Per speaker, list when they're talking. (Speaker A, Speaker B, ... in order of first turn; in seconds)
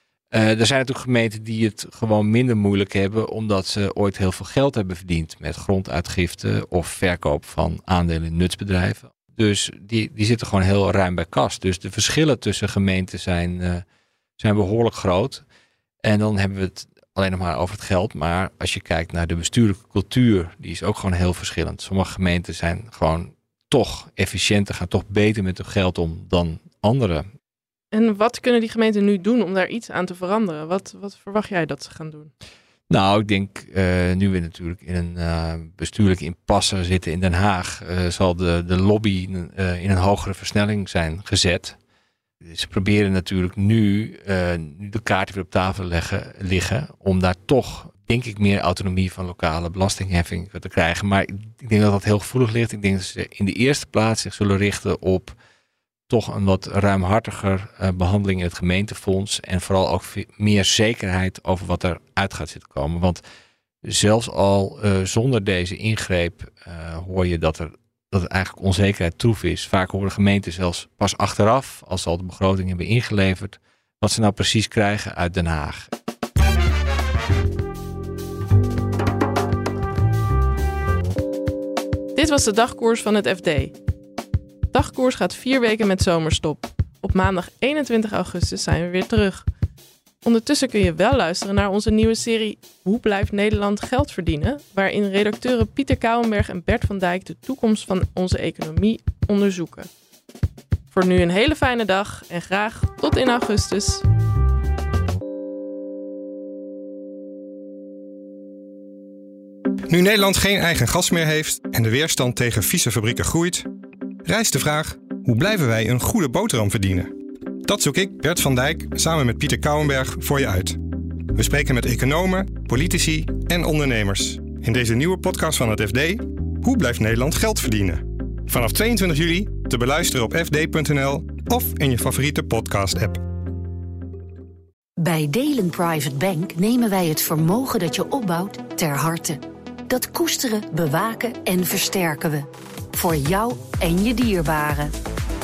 Speaker A: 0.3-13.8, 14.4-15.4, 16.0-27.2, 32.9-41.8, 42.4-55.3, 56.1-63.2, 63.8-75.9
Speaker B: 27.9-32.3, 82.1-83.7, 84.7-89.4, 90.2-99.9, 100.9-104.0
Speaker C: 109.9-113.6, 114.2-117.1, 117.7-120.8, 121.3-133.2
Speaker D: 135.0-144.9